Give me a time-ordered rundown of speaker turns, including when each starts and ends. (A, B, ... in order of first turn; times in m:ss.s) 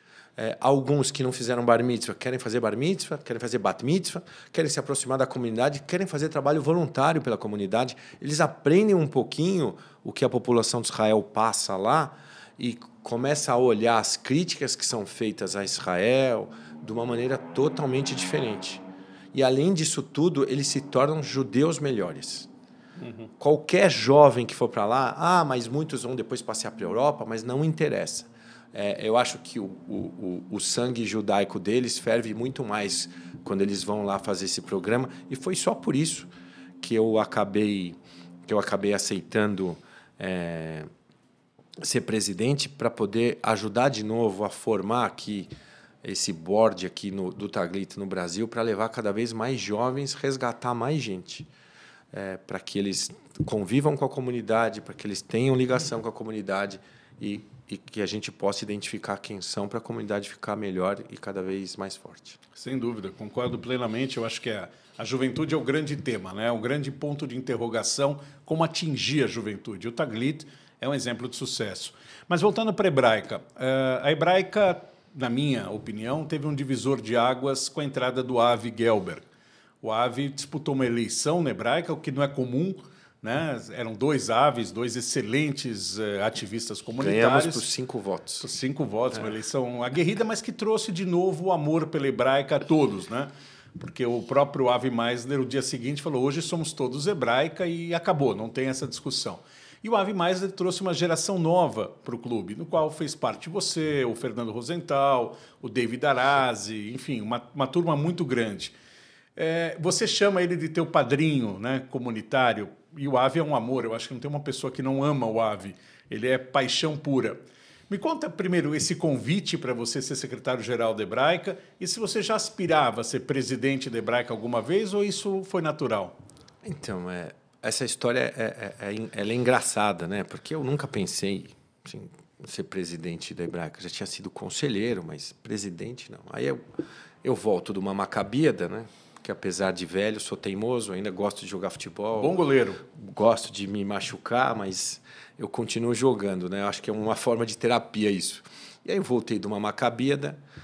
0:00.4-0:22.5 A
0:23.0-0:23.3 B
0:23.4-0:40.9 A
0:41.8-0:45.5 A
0:46.0-0:51.5 A
0:52.1-1:02.4 A
1:02.5-1:19.2 B
1:19.8-1:27.6 B
1:27.0-1:28.5 A
1:28.4-1:48.8 B
1:49.4-2:06.2 B
2:06.6-2:16.7 A
2:17.2-2:22.4 A
2:22.2-2:22.8 B
2:22.9-2:30.4 A